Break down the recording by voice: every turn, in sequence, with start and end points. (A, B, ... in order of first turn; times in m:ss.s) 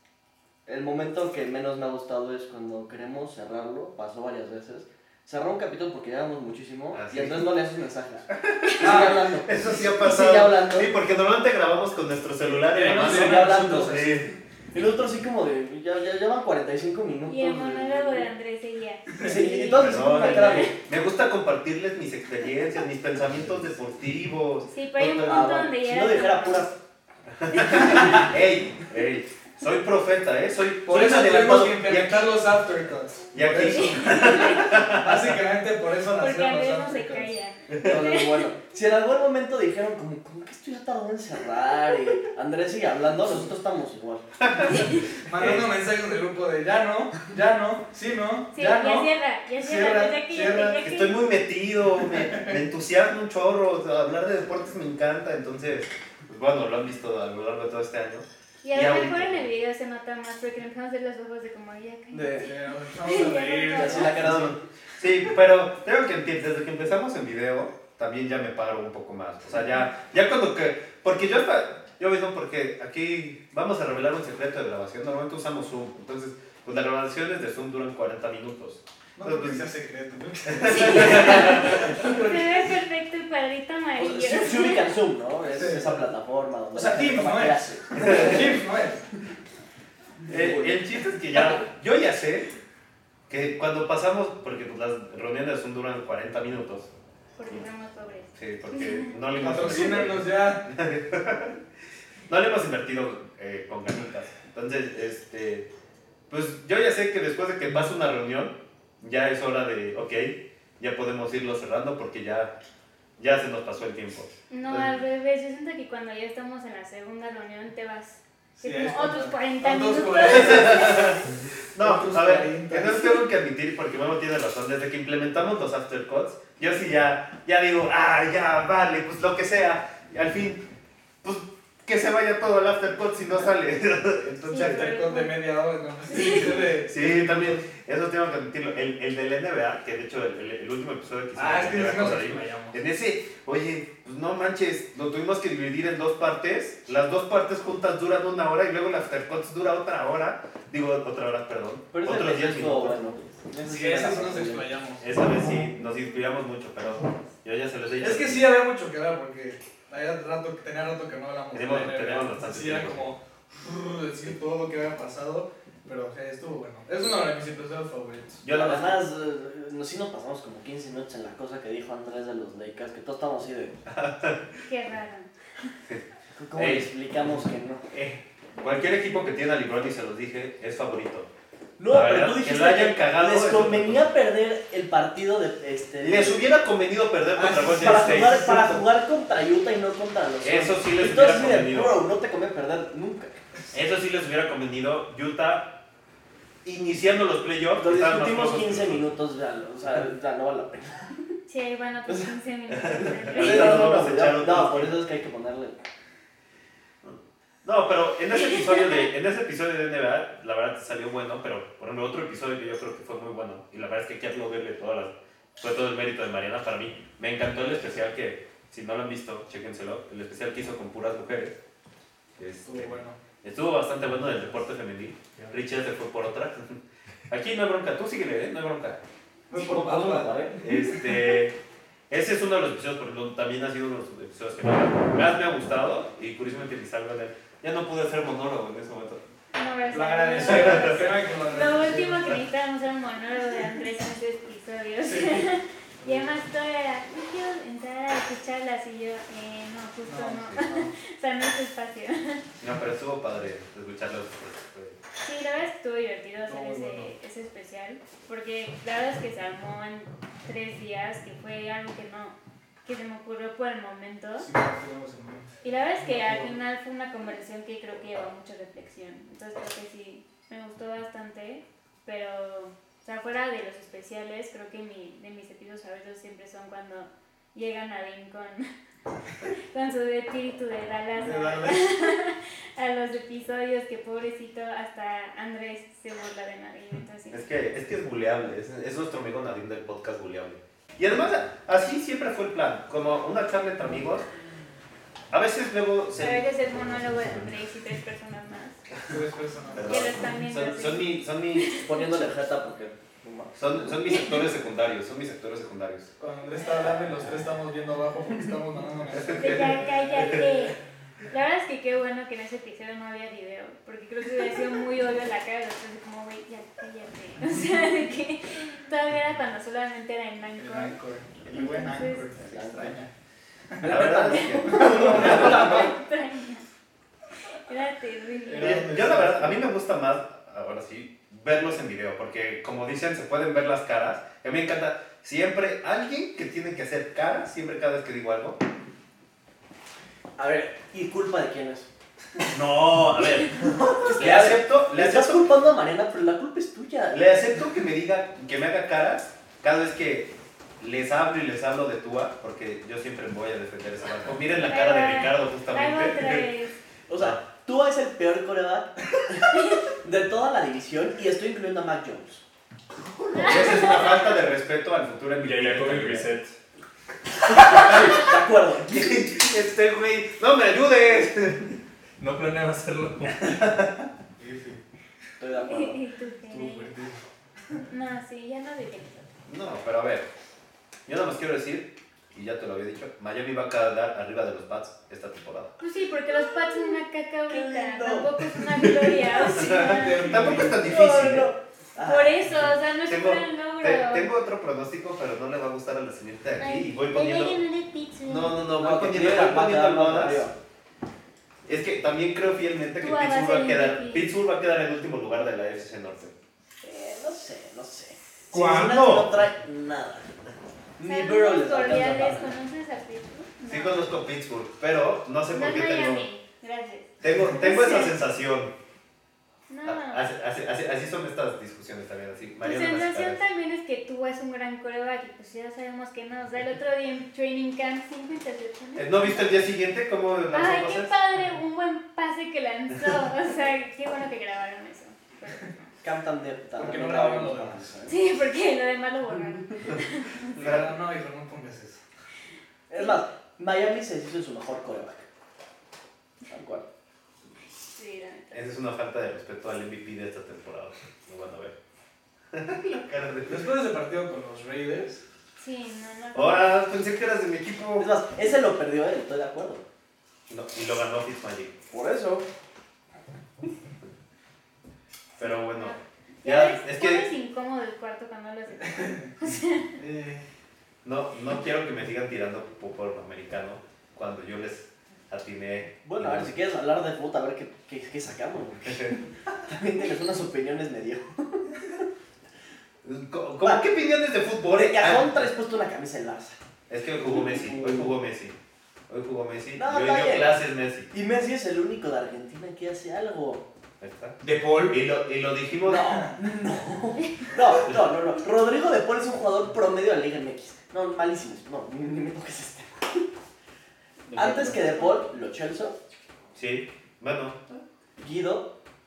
0:00.6-0:10.9 A
0:06.9-0:07.5 B
0:08.4-0:14.3 B
0:08.8-0:09.2 C
0:12.5-0:14.2 C
0:13.0-0:14.1 A
0:14.7-0:18.3 A
0:17.3-0:20.8 D
0:19.2-0:20.7 A
0:19.8-0:25.5 B
0:24.7-0:26.7 D
0:25.0-0:26.7 A
0:27.4-0:32.4 B
0:27.5-0:28.2 A
0:30.8-0:37.3 C
0:33.3-0:35.4 B
0:33.6-0:34.8 D
0:36.1-0:38.5 D
0:37.8-0:44.2 A
0:44.4-0:45.7 B
0:44.7-0:45.0 D
0:45.2-0:49.1 C
0:48.5-0:51.3 D
0:49.6-0:50.8 C
0:50.8-0:59.5 B
0:52.1-0:52.6 C
0:58.6-1:04.3 D
1:02.1-1:04.5 C
1:03.7-1:04.6 A
1:04.2-1:19.6 B
1:19.2-1:22.6 C
1:20.5-1:21.9 B
1:21.0-1:24.9 D
1:24.0-1:28.6 A
1:25.5-1:26.0 C
1:26.7-1:29.0 C
1:30.3-1:30.8 A
1:30.3-1:32.5 B
1:33.3-1:36.9 B
1:37.4-1:39.1 D
1:38.4-1:41.6 B
1:39.4-1:40.6 C
1:39.7-1:40.0 D
1:42.3-1:45.7 B
1:46.3-1:52.5 B
1:53.2-1:55.0 B
1:54.5-2:01.2 D
1:58.6-2:01.2 C
2:00.3-2:10.6 B
2:01.8-2:03.2 C
2:11.2-2:14.9 B
2:14.4-2:15.4 D
2:14.5-2:17.6 C
2:16.1-2:16.7 D
2:16.9-2:33.1 B
2:21.4-2:22.8 C
2:31.9-2:34.7 A
2:33.6-2:35.1 C
2:35.0-2:38.4 B
2:38.0-2:48.4 C
2:41.5-2:43.1 B
2:48.4-2:49.0 B
2:48.5-2:53.8 A
2:53.9-2:54.6 B
2:54.6-2:55.3 D
2:55.9-2:56.9 B
2:56.4-2:57.9 A
2:57.9-3:01.3 B
3:01.8-3:06.4 A
3:01.9-3:04.1 B
3:06.0-3:08.8 B
3:07.4-3:08.6 C
3:07.6-3:13.4 A
3:10.4-3:12.0 B
3:13.7-3:15.8 B
3:16.6-3:19.1 B
3:17.8-3:21.3 A
3:21.5-3:24.0 D
3:23.2-3:25.9 A
3:23.2-3:25.0 B
3:27.0-3:41.6 B
3:42.4-3:46.8 B
3:42.6-3:43.2 C
3:47.3-3:49.0 B
3:49.5-3:51.0 C
3:49.5-3:50.6 A
3:50.6-3:51.5 B
3:52.1-3:59.2 B
3:59.5-4:12.4 D
3:59.9-4:02.4 C
4:00.4-4:01.1 B
4:05.0-4:05.5 C
4:10.0-4:10.9 C
4:12.6-4:15.0 B
4:15.2-4:24.5 D
4:16.5-4:17.1 C
4:24.4-4:26.6 C
4:25.6-4:38.7 D
4:39.4-4:47.4 D
4:41.2-4:41.8 C
4:47.3-4:54.2 B
4:55.3-4:56.5 B
4:56.2-4:58.8 D
4:59.1-5:00.2 C
4:59.8-5:01.9 B
4:59.8-5:02.1 D
5:01.8-5:03.7 A
5:03.5-5:06.1 B
5:06.2-5:10.0 C
5:09.2-5:09.8 B
5:09.3-5:10.8 D
5:11.3-5:22.4 D
5:20.6-5:23.1 C
5:21.6-5:21.8 A
5:22.4-5:23.0 A
5:23.8-5:25.9 A
5:23.8-5:25.9 B
5:24.4-5:26.6 D
5:24.9-5:25.2 C
5:27.5-5:28.9 D
5:28.4-5:29.6 C
5:28.6-5:38.6 B
5:40.4-5:41.9 A
5:42.5-5:45.5 B
5:43.5-5:47.5 A
5:47.1-5:56.5 B
5:54.6-5:56.7 D
5:57.1-6:02.4 A
5:57.1-5:57.4 B
5:59.5-5:59.8 D
6:03.3-6:06.3 B
6:03.3-6:04.3 D
6:05.4-6:06.5 E
6:07.4-6:09.3 A
6:07.5-6:08.3 B
6:08.9-6:11.8 B
6:12.2-6:13.6 E
6:13.4-6:13.9 B
6:14.4-6:14.8 C
6:15.4-6:16.0 A
6:15.6-6:16.9 D
6:16.5-6:17.2 C
6:17.9-6:19.3 D
6:19.5-6:20.2 B
6:21.1-6:25.8 B
6:25.8-6:30.6 D
6:26.5-6:27.0 A
6:27.5-6:28.4 A
6:29.4-6:31.5 B
6:29.8-6:30.8 C
6:30.6-6:32.4 A
6:32.0-6:34.3 D
6:33.0-6:37.6 B
6:36.6-6:38.6 D
6:38.2-6:40.5 B
6:38.8-6:40.5 A
6:41.6-6:46.3 B
6:43.0-6:44.3 D
6:46.8-6:50.3 A
6:48.5-6:48.9 E
6:48.5-6:49.4 B
6:51.0-6:52.5 A
6:51.0-6:54.1 D
6:53.7-6:56.2 B
6:55.5-6:58.2 D
6:57.2-6:58.7 B
6:59.7-7:00.3 D
6:59.8-7:03.4 B
7:02.6-7:09.7 D
7:09.0-7:11.1 B
7:10.5-7:15.9 D
7:16.0-7:18.2 A
7:16.8-7:17.9 C
7:18.1-7:20.6 D
7:20.5-7:22.0 C
7:20.6-7:20.9 B
7:22.9-7:25.3 A
7:22.9-7:23.2 D
7:26.5-7:26.9 A
7:27.9-7:28.6 D
7:28.5-7:31.8 B
7:32.5-7:33.6 B
7:33.4-7:35.2 C
7:35.6-7:36.8 D
7:36.3-7:38.1 B
7:38.0-7:39.8 A
7:40.5-7:41.8 B
7:41.9-7:42.4 A
7:45.4-7:47.3 B
7:45.4-7:49.9 D
7:50.0-7:50.4 C
7:51.0-7:56.5 B
7:56.0-8:01.9 A
8:03.0-8:05.5 B
8:03.6-8:03.9 A
8:04.7-8:06.6 A
8:06.9-8:08.5 B
8:07.2-8:08.1 A
8:09.1-8:11.1 B
8:09.8-8:13.6 A
8:14.0-8:16.3 B
8:14.4-8:14.9 E
8:15.8-8:23.3 A
8:24.3-8:25.2 D
8:24.3-8:26.0 A
8:24.4-8:24.7 B
8:26.5-8:27.8 B
8:28.2-8:28.7 A